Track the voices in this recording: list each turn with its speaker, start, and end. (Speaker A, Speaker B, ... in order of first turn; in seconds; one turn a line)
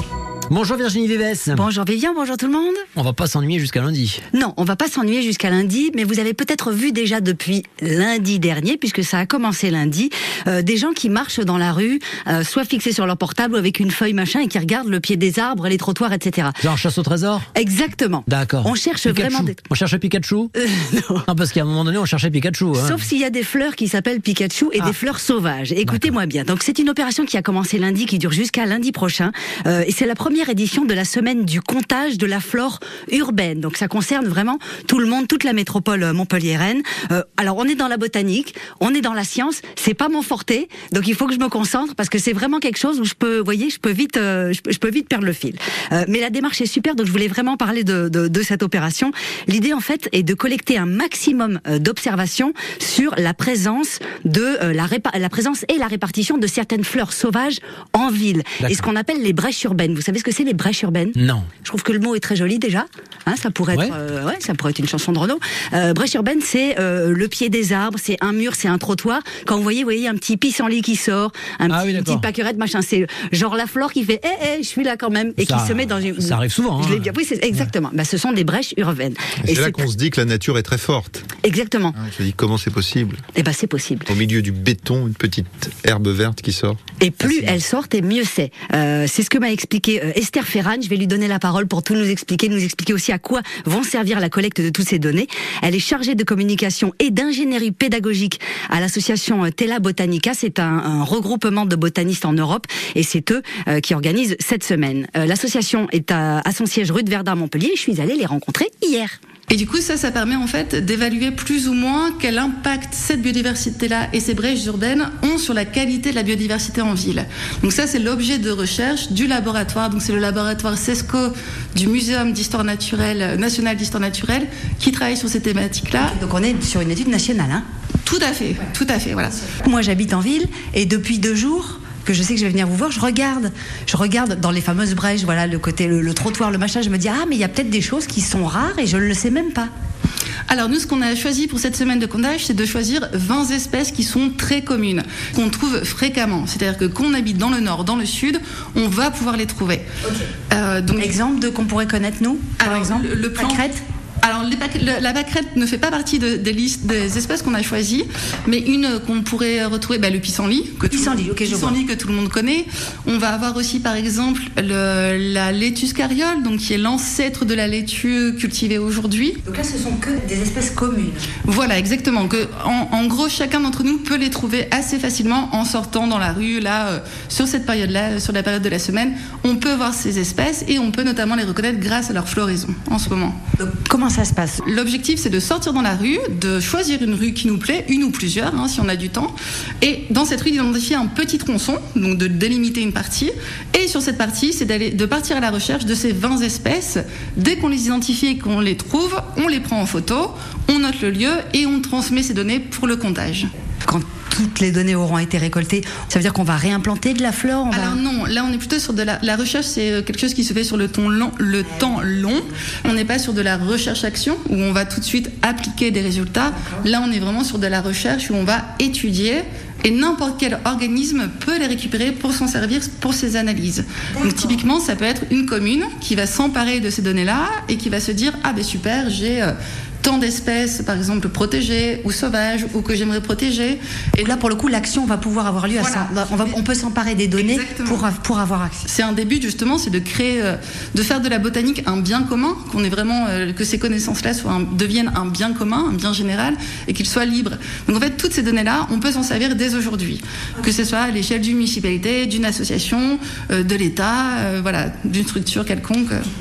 Speaker A: 0.5-1.6
Speaker B: 1.5-2.8
Speaker A: 3.0-4.2
Speaker B: 4.3-16.6
Speaker A: 16.6-17.5
Speaker B: 17.5-19.6
Speaker A: 18.3-20.5
Speaker B: 20.6-21.2
Speaker A: 21.3-23.0
Speaker B: 22.7-79.8
Speaker A: 25.8-26.1
Speaker A: 58.6-58.9
Speaker A: 61.2-61.5
Speaker A: 71.7-72.3
Speaker A: 75.4-77.1
Speaker C: 79.4-81.3
Speaker B: 81.4-82.0
Speaker C: 82.0-83.2
Speaker B: 83.3-84.1
Speaker C: 84.1-87.6
Speaker B: 87.0-109.2
Speaker D: 109.5-126.1
Speaker B: 126.0-127.6
Speaker D: 128.0-129.4
Speaker B: 129.4-139.7
Speaker D: 140.5-149.8
Speaker B: 150.0-150.3
Speaker D: 150.5-151.2
Speaker B: 151.0-153.8
Speaker D: 152.6-153.7
Speaker D: 154.2-169.4
Speaker B: 160.9-161.8
Speaker B: 169.4-171.3
Speaker D: 171.4-183.4
Speaker B: 183.6-184.6
Speaker D: 184.6-203.5
Speaker B: 203.8-208.0
Speaker D: 207.7-234.4
Speaker B: 224.2-224.6
Speaker B: 234.2-238.8
Speaker D: 235.7-236.6
Speaker D: 237.4-238.1
Speaker D: 238.8-256.2